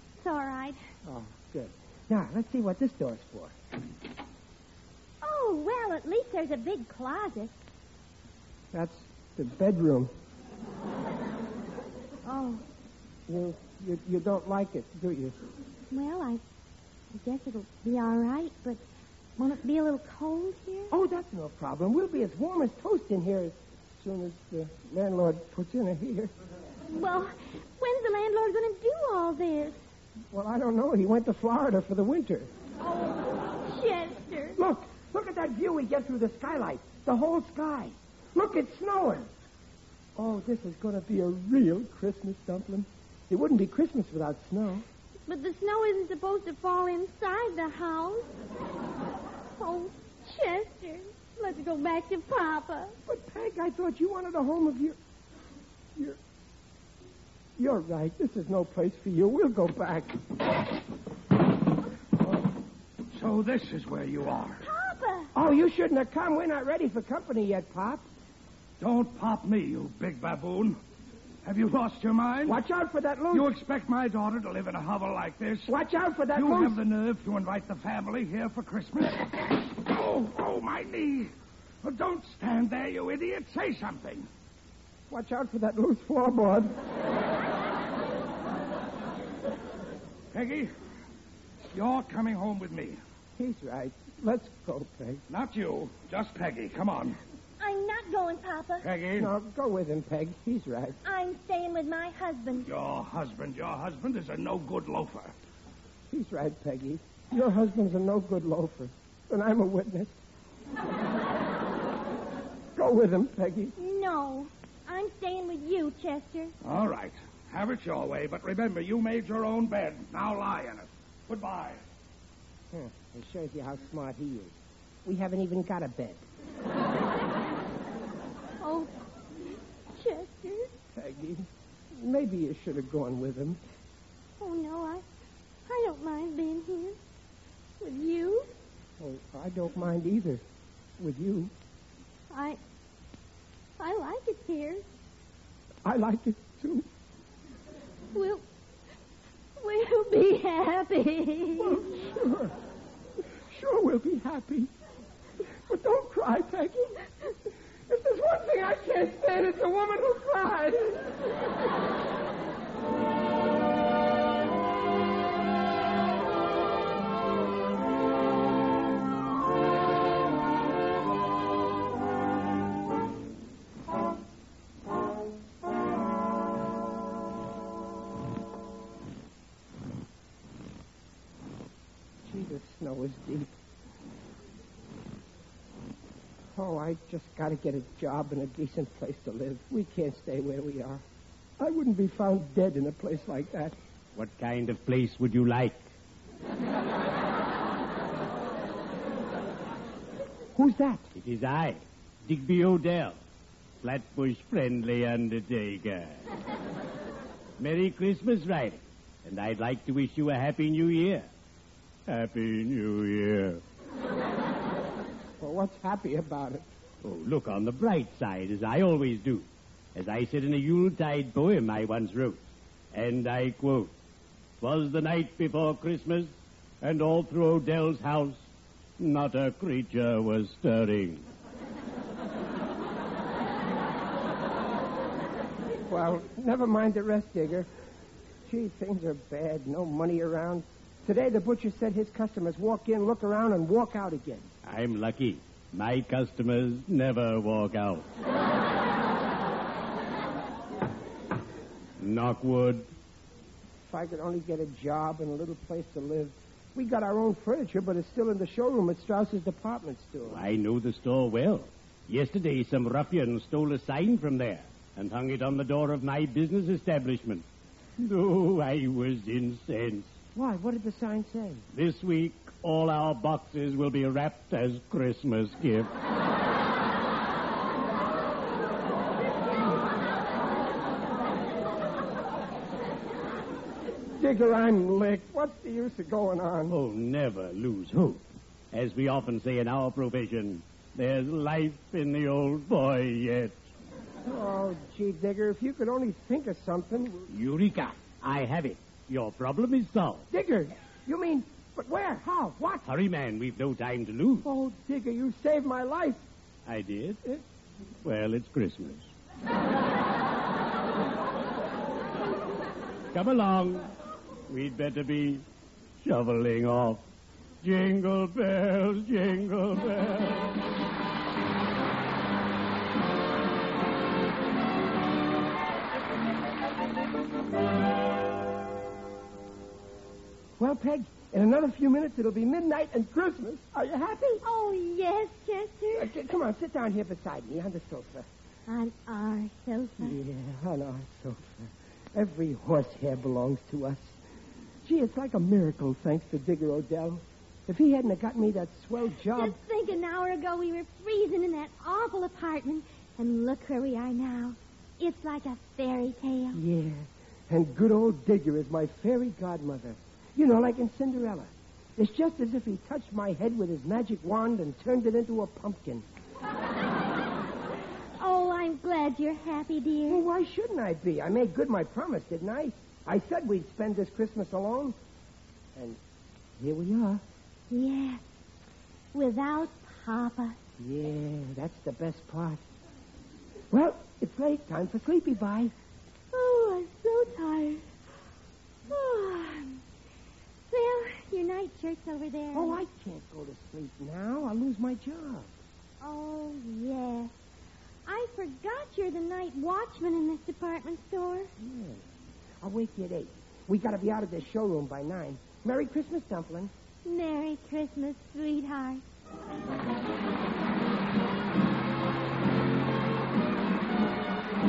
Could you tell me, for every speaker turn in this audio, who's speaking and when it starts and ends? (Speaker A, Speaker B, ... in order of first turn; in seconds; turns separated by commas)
Speaker A: 0.2-0.8, Speaker B: 1.1-3.5, Speaker A: 5.2-7.6, Speaker B: 8.7-10.1, Speaker A: 12.2-12.6, Speaker B: 13.3-15.4, Speaker A: 15.9-16.4, Speaker A: 17.1-18.8, Speaker A: 19.4-20.9, Speaker B: 20.9-26.3, Speaker A: 26.9-29.8, Speaker B: 30.3-32.5, Speaker A: 32.8-34.6, Speaker B: 34.6-39.3, Speaker B: 40.1-44.9, Speaker A: 45.3-48.3, Speaker A: 49.6-53.0, Speaker B: 53.1-55.0, Speaker B: 57.6-60.2, Speaker C: 63.1-64.6, Speaker A: 64.6-65.3, Speaker B: 65.3-68.1, Speaker C: 68.8-70.8, Speaker C: 71.4-72.6, Speaker B: 72.5-73.5, Speaker C: 73.3-75.7, Speaker B: 75.7-76.8, Speaker C: 76.3-84.3, Speaker B: 85.1-86.8, Speaker C: 90.3-90.7, Speaker C: 91.7-93.0, Speaker B: 93.4-95.2, Speaker C: 95.3-97.2, Speaker A: 97.6-98.9, Speaker C: 98.8-99.3, Speaker B: 99.2-101.0, Speaker A: 101.0-102.7, Speaker C: 102.7-105.3, Speaker B: 106.1-110.2, Speaker B: 112.8-113.7, Speaker A: 113.8-116.5, Speaker C: 116.6-121.8, Speaker B: 122.7-126.2, Speaker A: 128.6-128.9, Speaker A: 129.9-130.7, Speaker B: 130.9-133.6, Speaker A: 134.4-135.0, Speaker A: 135.7-137.0, Speaker A: 137.8-138.5, Speaker B: 139.0-140.4, Speaker B: 141.0-141.5, Speaker A: 142.3-142.6, Speaker A: 143.8-144.8, Speaker B: 145.8-146.9, Speaker A: 148.1-148.4, Speaker A: 149.6-151.9, Speaker B: 151.6-152.6, Speaker B: 153.5-154.7, Speaker B: 155.6-157.0, Speaker B: 157.9-161.2, Speaker B: 182.2-183.6, Speaker B: 186.6-191.0, Speaker B: 191.6-193.8, Speaker D: 194.1-195.9, Speaker B: 200.6-201.1, Speaker D: 201.2-203.2, Speaker D: 203.8-206.2, Speaker D: 207.6-211.3, Speaker D: 212.1-213.6, Speaker B: 215.4-216.7, Speaker D: 217.0-223.9, Speaker D: 224.6-228.5, Speaker D: 229.0-231.2, Speaker B: 235.8-237.7, Speaker B: 238.4-244.5, Speaker D: 244.6-248.1, Speaker D: 252.0-252.9, Speaker B: 253.9-260.4, Speaker D: 260.3-267.4, Speaker D: 268.0-270.1, Speaker B: 270.4-271.6, Speaker D: 271.7-275.9, Speaker B: 284.1-286.7, Speaker D: 286.7-293.6, Speaker B: 294.2-297.3, Speaker D: 297.3-300.3, Speaker B: 300.3-302.9, Speaker D: 302.9-304.5, Speaker B: 304.4-306.2, Speaker D: 306.6-307.4, Speaker D: 308.0-309.1, Speaker D: 313.1-313.9, Speaker D: 314.5-315.4, Speaker D: 316.0-317.1, Speaker D: 317.6-320.5, Speaker B: 330.6-334.4, Speaker A: 334.4-336.1, Speaker B: 335.9-338.3, Speaker A: 338.7-340.2, Speaker B: 340.0-344.2, Speaker B: 344.8-349.6, Speaker A: 349.3-356.6, Speaker B: 356.5-366.1, Speaker A: 368.2-370.2, Speaker B: 370.1-375.0, Speaker B: 376.6-377.2, Speaker A: 377.7-378.3, Speaker A: 379.1-380.6, Speaker B: 380.8-382.6, Speaker B: 383.7-385.7, Speaker A: 386.3-387.9, Speaker A: 388.9-389.8, Speaker A: 390.7-392.8, Speaker B: 392.5-395.6, Speaker A: 396.0-397.4, Speaker A: 398.1-401.5, Speaker B: 401.6-402.0, Speaker B: 402.6-406.7, Speaker A: 407.1-409.0